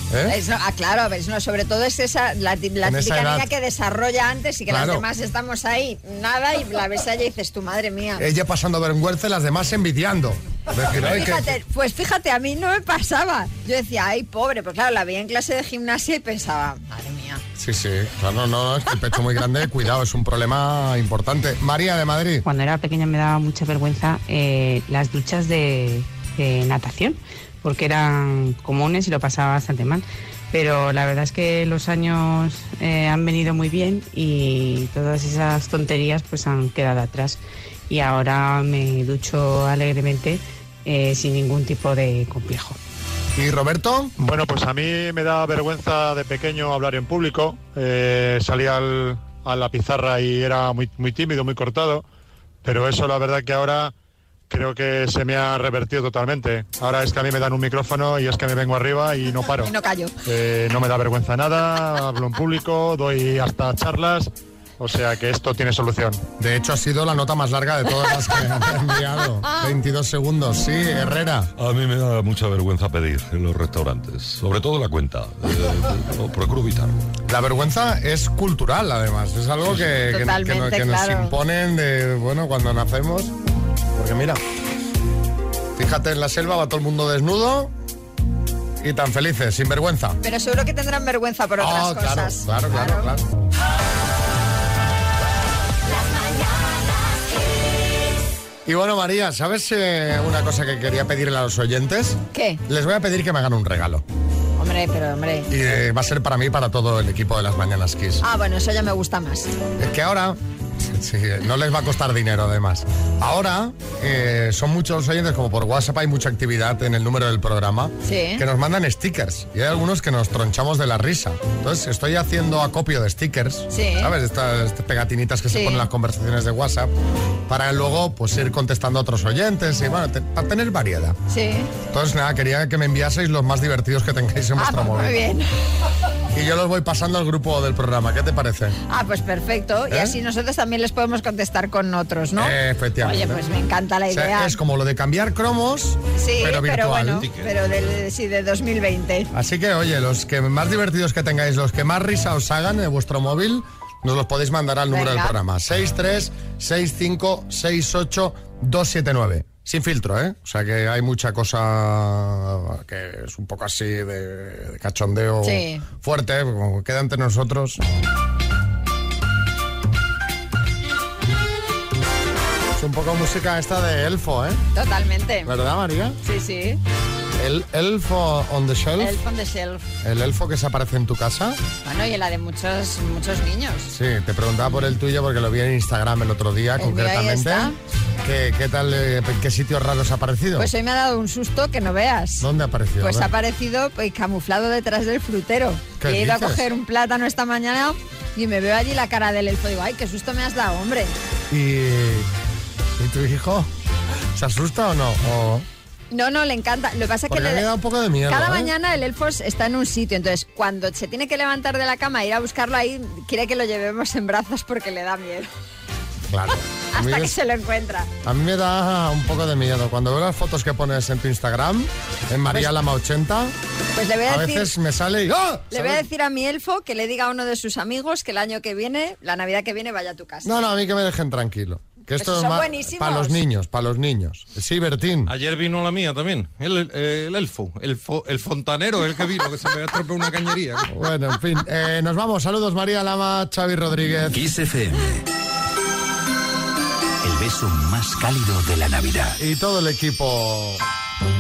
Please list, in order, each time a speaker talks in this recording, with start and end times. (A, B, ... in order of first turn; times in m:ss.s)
0:00.1-0:00.4 A
0:00.3-0:08.2 B
0:02.8-0:03.5 A
0:04.7-0:05.0 A
0:08.2-0:11.6 A
0:10.9-0:17.4 B
0:17.6-0:22.4 A
0:22.4-0:42.8 C
0:43.4-0:44.1 A
0:44.2-0:52.0 D
0:52.6-0:53.9 D
0:54.5-0:59.7 D
0:59.6-1:00.1 B
1:00.2-1:06.2 D
1:06.4-1:11.5 A
1:11.6-1:16.9 E
1:17.3-1:23.3 A
1:20.0-1:21.3 B
1:23.9-1:24.4 A
1:25.8-1:27.7 A
1:28.8-1:30.2 A
1:30.2-1:33.1 B
1:31.6-1:33.2 A
1:38.6-1:44.0 A
1:42.3-1:42.6 B
1:44.6-1:45.5 B
1:45.5-1:48.2 A
1:48.2-1:49.5 B
1:49.8-2:06.9 A
1:58.0-1:58.4 B
2:03.7-2:04.1 B
2:05.5-2:05.8 B
2:07.5-2:11.2 A
2:11.3-2:11.7 B
2:11.9-2:15.2 A
2:14.6-2:15.4 B
2:16.3-2:18.8 A
2:18.9-2:24.5 B
2:19.9-2:20.2 A
2:22.4-2:23.4 A
2:24.1-2:27.3 A
2:26.2-2:29.3 B
2:29.3-2:47.8 A
2:34.9-2:35.4 B
2:45.4-2:45.8 B
2:52.8-2:54.6 A
2:54.7-2:55.5 B
2:55.4-2:56.2 A
2:56.2-2:56.8 B
2:57.4-2:59.2 A
2:59.0-2:59.8 B
3:00.0-3:01.6 A
3:01.8-3:03.9 B
3:03.9-3:10.7 A
3:06.8-3:07.8 B
3:10.6-3:12.4 B
3:12.4-3:13.3 A
3:13.0-3:21.2 B
3:16.0-3:16.6 A
3:21.5-3:22.3 A
3:23.0-3:23.7 A
3:24.3-3:25.6 A
3:26.1-3:27.7 B
3:27.3-3:28.7 A
3:28.3-3:35.5 B
3:36.3-3:37.4 A
3:36.9-3:38.1 B
3:38.2-3:43.5 A
3:43.9-3:44.7 B
3:44.2-3:46.0 A
3:45.7-3:50.6 B
3:50.4-3:55.3 A
3:52.2-3:53.4 B
3:55.4-4:00.8 E
4:00.9-4:04.4 A
4:04.3-4:05.2 F
4:07.2-4:09.4 F
4:09.4-4:10.8 A